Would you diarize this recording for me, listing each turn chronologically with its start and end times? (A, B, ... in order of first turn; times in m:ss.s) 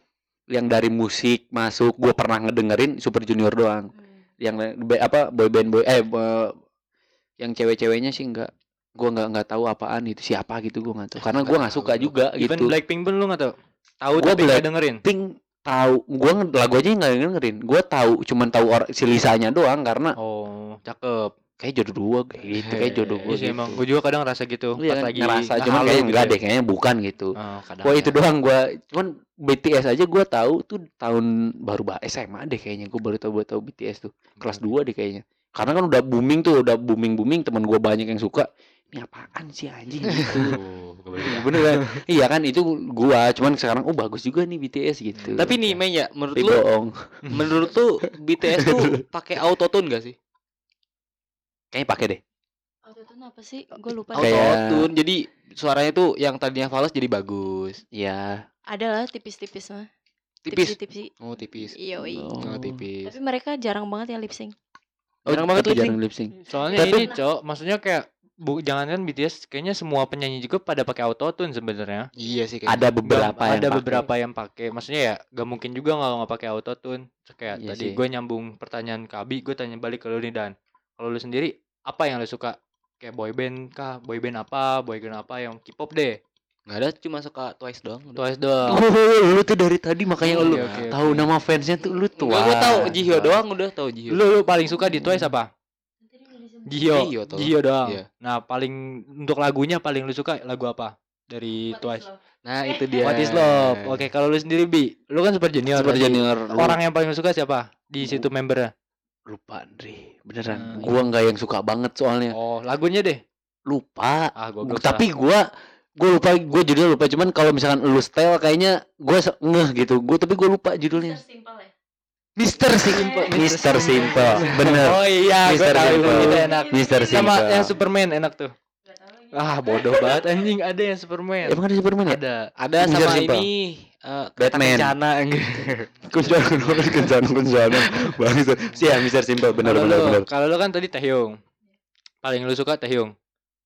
0:00.5-0:03.9 A
0:04.4-0:06.5 A
0:07.4-0:12.7 A
0:11.2-0:12.1 B
0:12.4-0:15.0 C
0:14.2-0:20.1 A
0:20.2-0:21.3 C
0:21.6-0:23.8 A
0:22.6-0:23.3 B
0:23.3-0:26.4 C
0:24.8-0:40.6 A
0:27.4-0:28.2 C
0:34.4-0:34.7 C
0:40.1-0:41.5 C
0:41.2-0:45.6 A
0:41.2-0:42.0 B
0:45.1-0:45.8 C
0:45.4-0:46.6 B
0:46.3-0:47.2 A
0:47.3-0:50.2 B
0:48.5-0:49.0 A
0:51.7-0:52.2 A
0:52.8-0:54.4 D
0:54.1-0:54.9 A
0:54.1-0:57.8 B
0:57.9-0:58.4 A
0:58.7-0:59.9 D
1:00.4-1:01.8 B
1:00.5-1:01.1 D
1:01.8-1:02.3 D
1:02.0-1:02.8 A
1:02.4-1:03.2 B
1:03.0-1:04.5 D
1:05.2-1:07.1 A
1:05.3-1:06.0 B
1:06.4-1:12.1 C
1:12.2-1:12.8 B
1:12.7-1:14.1 A
1:13.0-1:26.2 C
1:17.6-1:18.0 A
1:26.7-1:28.2 B
1:28.2-1:28.8 C
1:28.6-1:33.4 A
1:30.2-1:31.2 B
1:30.3-1:31.0 C
1:32.2-1:34.2 B
1:34.1-1:35.5 C
1:34.9-1:35.3 A
1:36.6-1:42.1 C
1:36.8-1:38.0 B
1:42.4-1:44.1 B
1:43.0-1:48.7 C
1:45.7-1:46.8 A
1:48.0-1:48.3 A
1:49.3-1:52.4 A
1:50.4-1:50.9 C
1:52.3-1:53.2 C
1:53.7-1:55.4 A
1:54.4-1:55.0 C
1:56.0-2:01.2 A
2:02.4-2:08.5 C
2:02.4-2:07.8 A
2:02.9-2:03.4 B
2:04.1-2:06.6 B
2:09.3-2:12.5 C
2:11.4-2:12.2 A
2:12.6-2:16.0 B
2:12.8-2:13.5 A
2:14.4-2:14.9 A
2:16.1-2:20.2 A
2:16.7-2:17.1 B
2:19.6-2:21.4 C
2:22.2-2:23.1 C